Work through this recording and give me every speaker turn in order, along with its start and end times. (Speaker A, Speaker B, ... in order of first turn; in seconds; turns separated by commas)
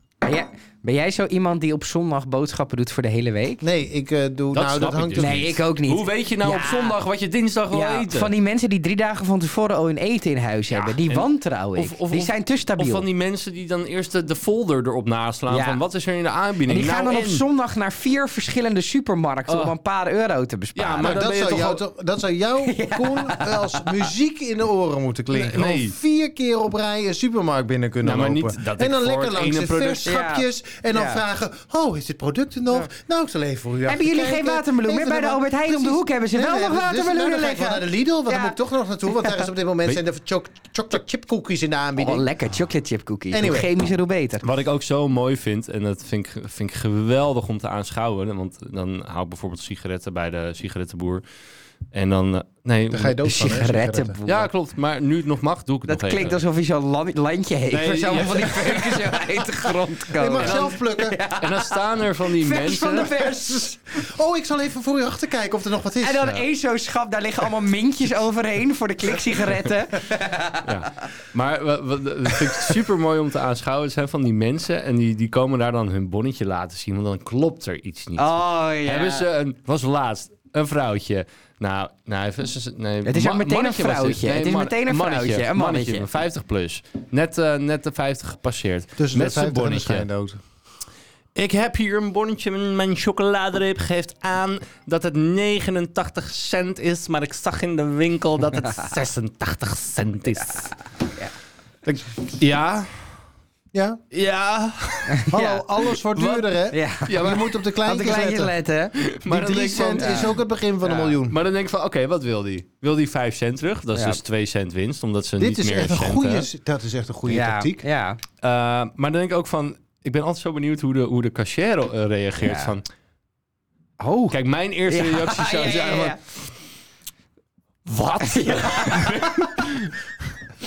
Speaker A: 0.2-3.6, Speaker B: 3.6-5.5, Speaker C: 4.5-8.3, Speaker A: 5.2-7.0, Speaker A: 7.7-13.0, Speaker C: 10.7-17.4, Speaker A: 15.5-15.8, Speaker A: 16.7-21.2, Speaker C: 19.5-19.7, Speaker C: 20.8-21.8, Speaker B: 21.0-42.3, Speaker A: 22.6-24.1, Speaker C: 25.3-25.9, Speaker C: 28.0-30.1, Speaker A: 30.0-31.2, Speaker A: 33.9-39.4, Speaker A: 42.0-44.5, Speaker B: 43.3-43.7, Speaker C: 44.4-51.2, Speaker C: 51.9-53.2, Speaker B: 52.9-54.2, Speaker A: 53.2-54.5, Speaker C: 54.3-56.4, Speaker A: 55.9-61.8, Speaker C: 57.7-59.4, Speaker B: 60.1-61.2, Speaker C: 60.4-60.7, Speaker C: 61.4-63.2, Speaker A: 62.3-63.8, Speaker B: 63.3-66.3, Speaker A: 66.0-70.8, Speaker C: 70.6-90.1, Speaker A: 78.2-79.2, Speaker A: 83.0-86.1, Speaker B: 89.0-90.4, Speaker C: 91.3-100.7, Speaker C: 102.4-103.1, Speaker B: 103.7-104.0, Speaker C: 104.1-105.2, Speaker A: 105.1-105.6, Speaker B: 105.3-108.5, Speaker C: 105.9-106.5, Speaker A: 106.7-108.9, Speaker C: 107.0-107.6, Speaker C: 109.0-110.3, Speaker B: 109.2-111.4, Speaker A: 110.0-110.3, Speaker C: 111.1-116.5, Speaker B: 115.4-117.8, Speaker A: 117.2-118.2, Speaker C: 118.4-122.8, Speaker A: 122.4-122.7, Speaker A: 124.0-124.3, Speaker C: 124.3-126.5, Speaker A: 124.9-126.2, Speaker C: 127.8-130.1, Speaker A: 128.2-129.4